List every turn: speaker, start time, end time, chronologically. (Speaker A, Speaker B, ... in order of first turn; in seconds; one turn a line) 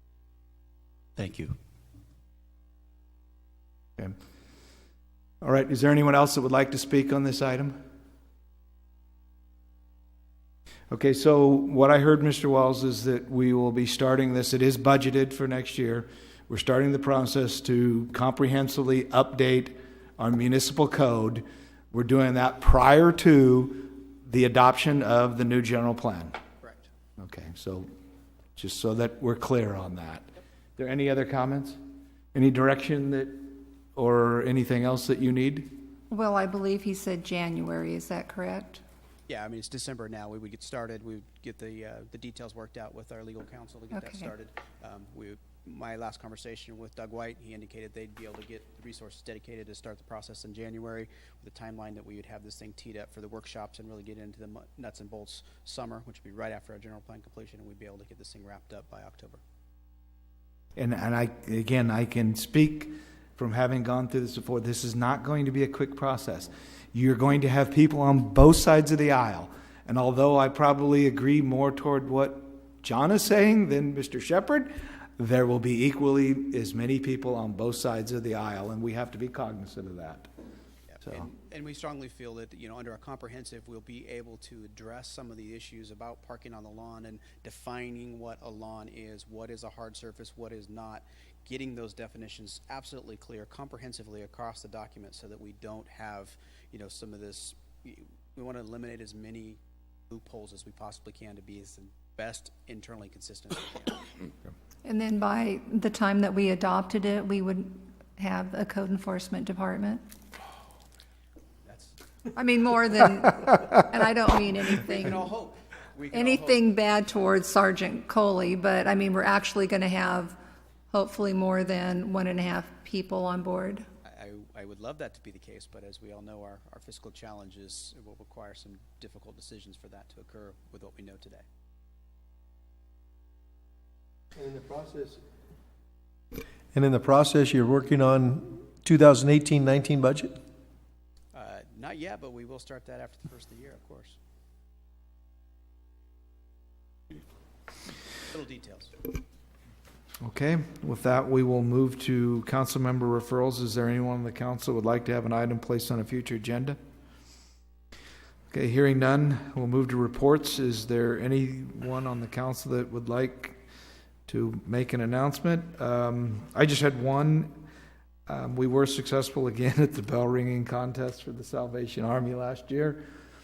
Speaker A: 5.4-7.8
Speaker A: 10.9-26.4
Speaker A: 27.2-27.9
Speaker A: 28.6-31.8
Speaker A: 32.3-35.7
Speaker B: 36.1-38.8
Speaker C: 39.3-59.4
Speaker B: 43.9-44.3
Speaker A: 60.8-80.3
Speaker C: 80.9-99.6
Speaker C: 100.1-104.1
Speaker B: 104.8-110.0
Speaker C: 111.7-111.9
Speaker B: 112.3-115.2
Speaker C: 114.7-116.8
Speaker B: 116.1-120.3
Speaker B: 120.9-123.8
Speaker C: 124.0-131.4
Speaker D: 134.3-135.2
Speaker D: 136.7-140.3
Speaker C: 141.3-144.2
Speaker C: 148.3-148.9
Speaker A: 150.2-156.8
Speaker A: 158.5-163.6
Speaker A: 164.3-167.5
Speaker A: 168.3-173.0